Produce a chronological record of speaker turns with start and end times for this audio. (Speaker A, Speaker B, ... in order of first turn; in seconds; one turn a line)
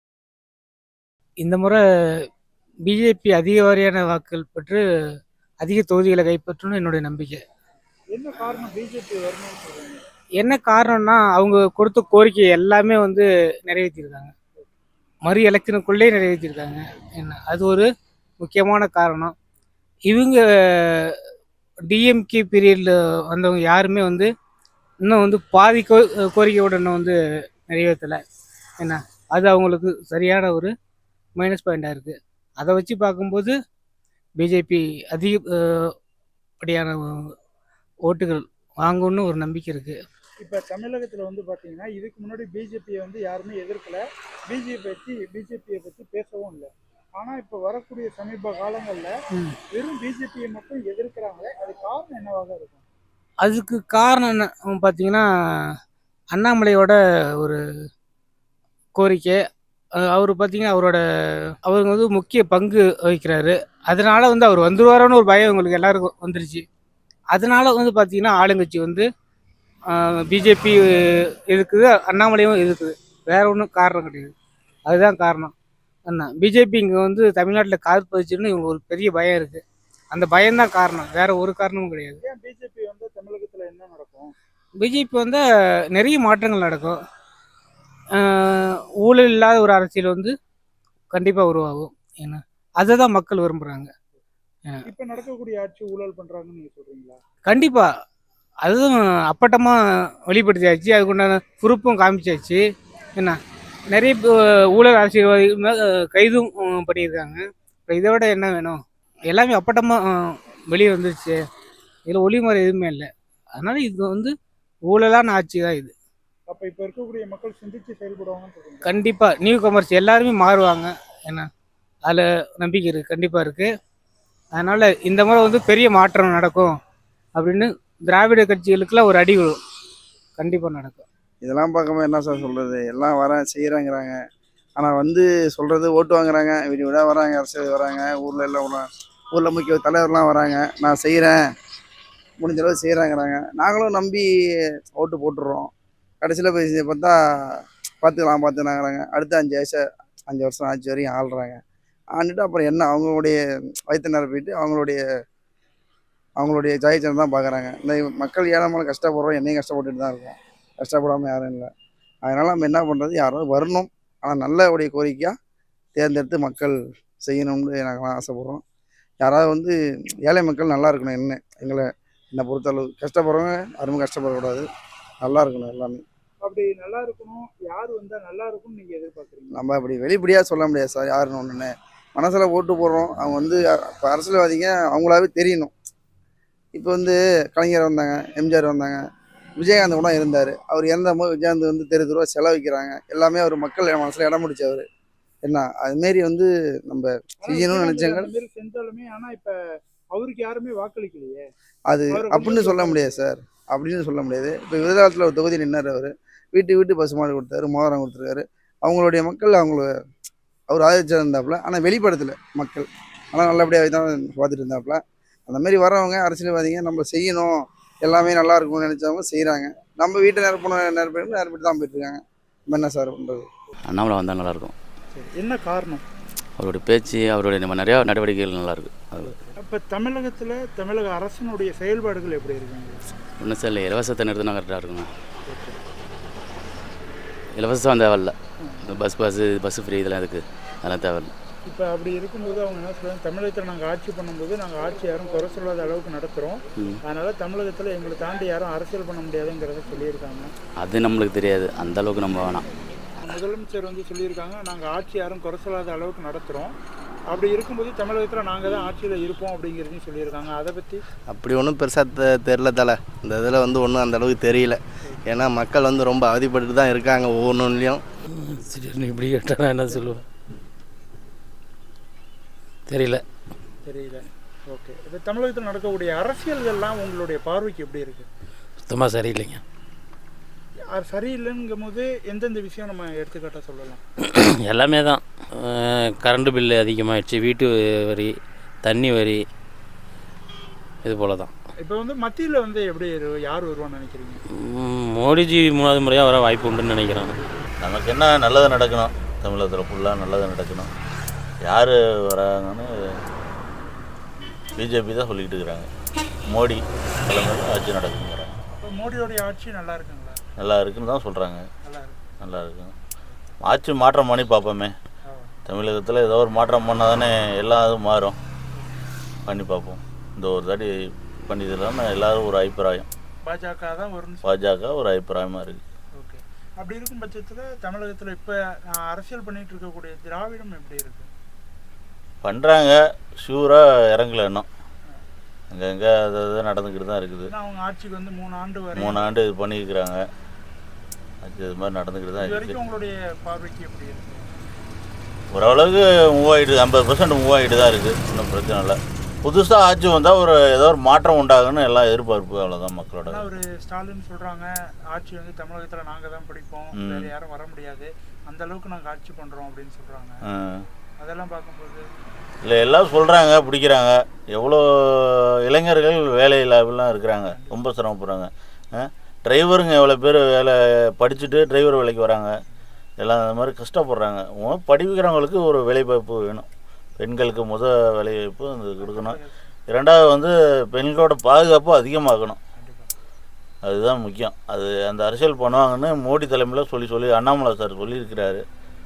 Speaker A: 1.4-1.8
Speaker A: 2.9-4.8
Speaker A: 5.6-7.4
Speaker B: 8.1-10.1
Speaker A: 10.4-14.3
Speaker A: 15.2-17.9
Speaker A: 18.4-19.3
Speaker A: 20.1-21.2
Speaker A: 21.9-24.3
Speaker A: 25.1-27.1
Speaker A: 27.7-28.2
Speaker A: 28.8-30.7
Speaker A: 31.4-33.5
Speaker A: 34.4-35.9
Speaker A: 36.6-37.2
Speaker A: 38.1-40.0
Speaker B: 40.4-49.1
Speaker B: 49.7-52.9
Speaker A: 53.4-55.3
Speaker A: 56.3-57.6
Speaker A: 59.0-59.4
Speaker A: 60.0-61.0
Speaker A: 61.6-66.6
Speaker A: 67.3-69.0
Speaker A: 69.9-70.8
Speaker A: 71.5-74.3
Speaker A: 74.9-75.5
Speaker A: 76.1-79.6
Speaker A: 80.1-82.2
Speaker B: 82.2-84.3
Speaker A: 84.8-85.4
Speaker A: 85.9-87.0
Speaker A: 88.2-90.3
Speaker A: 91.1-93.9
Speaker B: 94.9-97.2
Speaker A: 97.5-97.8
Speaker A: 98.6-99.8
Speaker A: 100.3-102.6
Speaker A: 103.9-108.8
Speaker A: 109.3-111.4
Speaker A: 112.1-114.3
Speaker A: 114.9-115.9
Speaker B: 116.5-119.0
Speaker A: 118.8-121.5
Speaker A: 122.1-123.7
Speaker A: 124.5-126.7
Speaker A: 127.3-129.6
Speaker A: 130.4-131.0
Speaker C: 131.4-134.2
Speaker C: 134.8-141.4
Speaker C: 142.4-144.3
Speaker C: 144.9-145.7
Speaker C: 146.2-147.2
Speaker C: 148.0-151.6
Speaker C: 152.1-155.0
Speaker C: 156.4-161.7
Speaker C: 162.2-165.3
Speaker C: 165.9-168.6
Speaker C: 169.2-174.7
Speaker C: 175.2-176.0
Speaker B: 176.4-179.5
Speaker C: 179.5-185.7
Speaker C: 186.8-189.0
Speaker C: 189.6-194.8
Speaker C: 195.4-198.3
Speaker B: 197.4-201.5
Speaker C: 201.9-209.9
Speaker B: 202.1-203.2
Speaker C: 210.7-223.5
Speaker D: 223.9-224.7
Speaker B: 225.1-226.0
Speaker D: 226.6-229.3
Speaker B: 229.5-233.0
Speaker D: 233.4-235.1
Speaker B: 235.4-235.8
Speaker D: 237.6-238.3
Speaker D: 238.8-241.3
Speaker B: 241.6-250.5
Speaker D: 250.8-252.6
Speaker B: 253.2-256.8
Speaker B: 257.3-261.0
Speaker E: 261.3-268.0
Speaker F: 268.4-270.2
Speaker F: 272.9-273.2
Speaker B: 273.8-278.3
Speaker F: 278.9-279.6
Speaker B: 280.8-284.0
Speaker F: 284.3-288.3
Speaker F: 288.8-289.4
Speaker F: 291.0-291.5
Speaker B: 291.8-294.4
Speaker F: 294.6-297.4
Speaker G: 297.8-300.9
Speaker G: 301.6-302.9
Speaker G: 304.8-305.9
Speaker G: 306.5-308.5
Speaker B: 308.7-310.4
Speaker G: 310.6-311.6
Speaker B: 311.8-312.2
Speaker G: 312.4-312.9
Speaker G: 313.6-314.9
Speaker G: 315.7-318.3
Speaker B: 318.7-319.0
Speaker G: 319.5-320.9
Speaker G: 321.4-323.1
Speaker B: 323.4-324.5
Speaker G: 324.4-325.8
Speaker B: 326.1-331.3
Speaker G: 332.4-334.7
Speaker G: 335.7-337.5
Speaker B: 337.5-339.3
Speaker G: 338.9-340.2
Speaker G: 341.4-342.8
Speaker B: 342.4-344.6
Speaker G: 345.5-353.5
Speaker B: 353.3-360.4
Speaker G: 356.9-357.3
Speaker G: 360.5-360.8
Speaker B: 361.2-362.1
Speaker G: 362.6-372.5
Speaker B: 367.5-367.8
Speaker G: 373.2-376.7
Speaker G: 377.2-379.4
Speaker B: 379.0-379.6
Speaker G: 379.9-382.6
Speaker B: 382.8-383.1
Speaker G: 383.9-388.6